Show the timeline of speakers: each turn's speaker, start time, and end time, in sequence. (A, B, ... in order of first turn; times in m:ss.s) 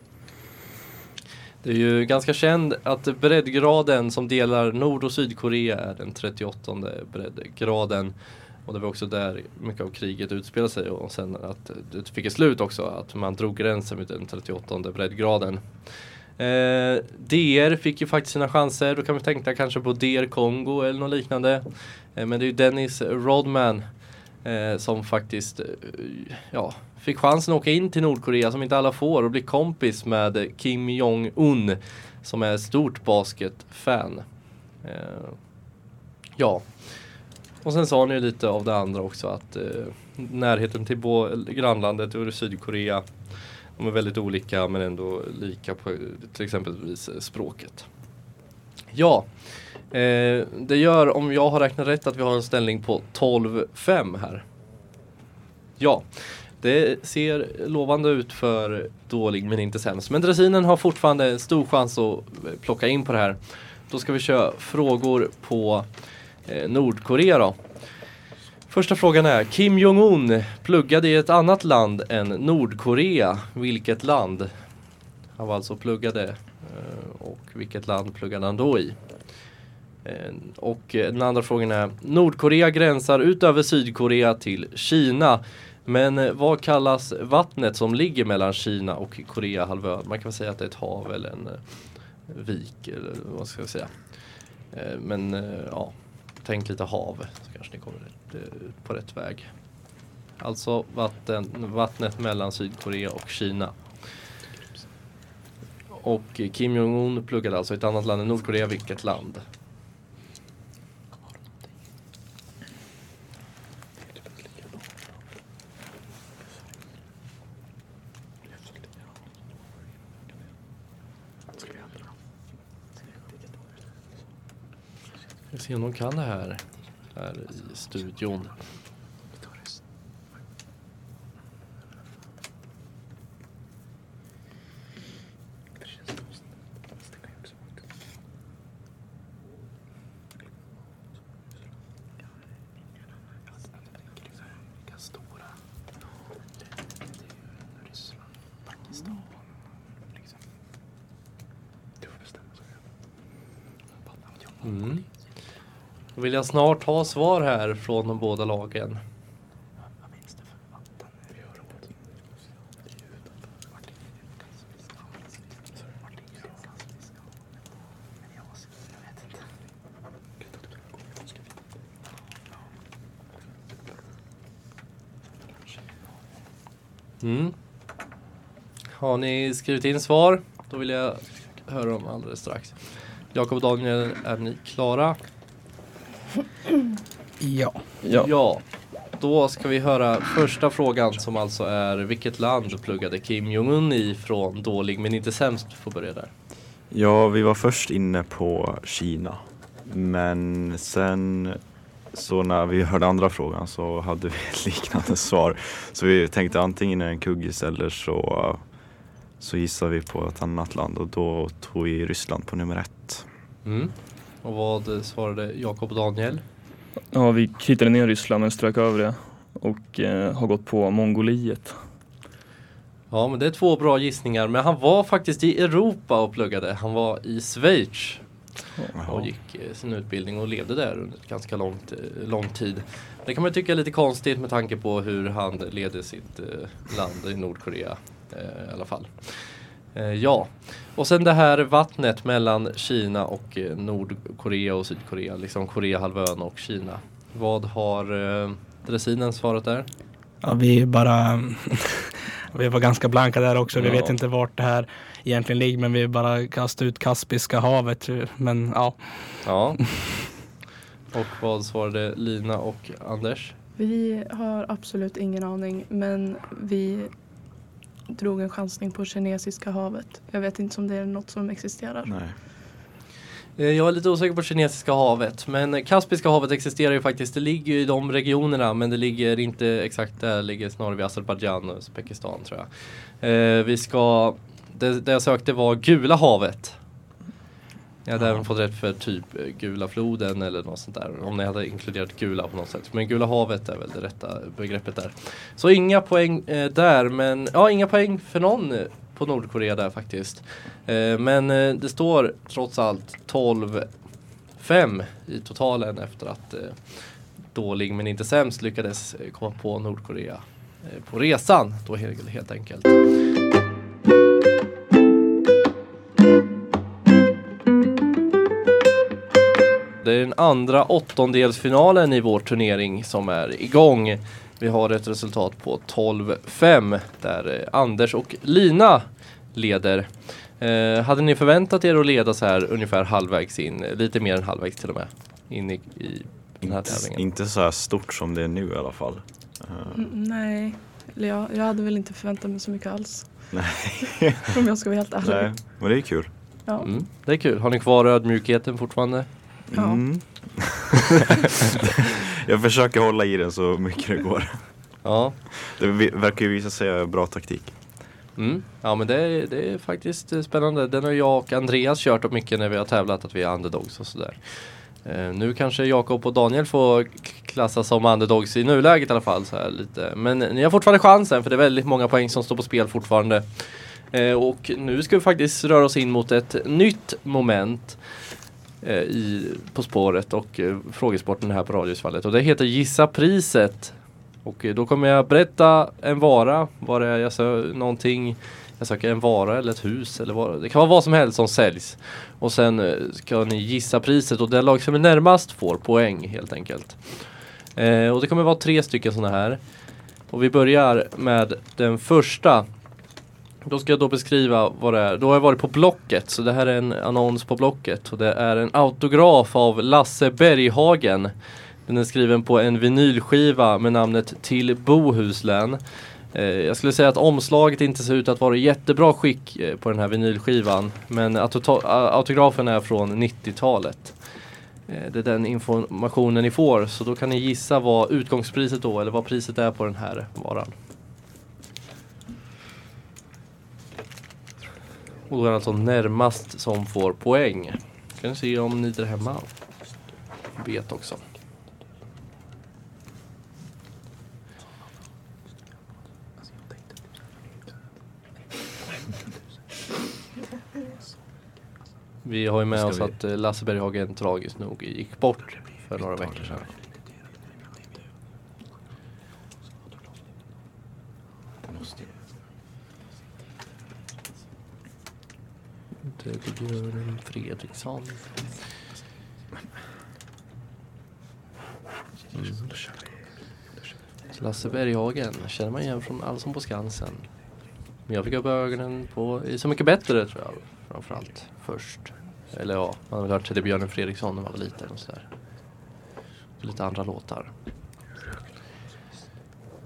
0:01.6-0:35.5 A
0:36.4-0:47.9 A
0:48.9-0:49.3 A
0:49.9-0:54.4 A
0:55.8-1:05.9 A
1:06.5-1:07.6 A
1:08.7-1:14.5 A
1:15.4-1:19.0 A
1:20.0-1:44.1 A
1:46.0-1:49.4 A
2:05.5-2:06.6 A
2:07.1-2:08.6 A
2:34.6-2:35.0 A
2:36.2-2:39.0 A
2:57.2-2:57.5 A
2:59.0-3:05.2 A
3:07.4-3:07.8 B
3:08.0-3:08.3 C
3:08.1-3:16.3 A
3:16.9-3:33.3 D
3:33.6-3:36.4 A
3:37.1-3:41.8 C
3:43.1-3:48.3 A
3:49.0-3:49.3 D
3:49.0-4:09.9 A
4:10.4-4:19.6 B
4:13.8-4:14.2 A
4:19.4-4:19.8 A
4:21.1-4:23.5 A
4:23.8-4:32.2 E
4:32.0-4:32.3 D
4:33.6-4:46.8 A
4:48.0-5:03.9 A
4:48.2-4:48.4 D
5:04.5-5:13.2 A
5:20.0-5:37.2 A
5:36.6-5:40.0 D
5:39.9-5:43.9 E
5:43.5-5:44.4 D
5:44.5-5:45.6 E
5:45.2-5:46.3 D
5:46.8-5:49.3 A
5:49.7-5:51.0 D
5:49.8-5:50.3 E
5:51.8-5:55.1 D
5:55.0-5:55.4 A
5:55.6-5:57.8 D
5:58.4-6:18.0 A
6:18.8-6:42.7 A
6:43.6-6:51.3 A
6:51.8-7:10.7 A
7:15.3-7:19.8 A
7:20.6-7:21.2 A
7:32.2-7:36.7 A
7:32.7-7:33.1 D
7:41.7-7:42.0 D
7:46.1-7:48.4 A
7:52.3-7:52.6 A
7:54.3-8:05.3 A
8:06.6-8:07.5 A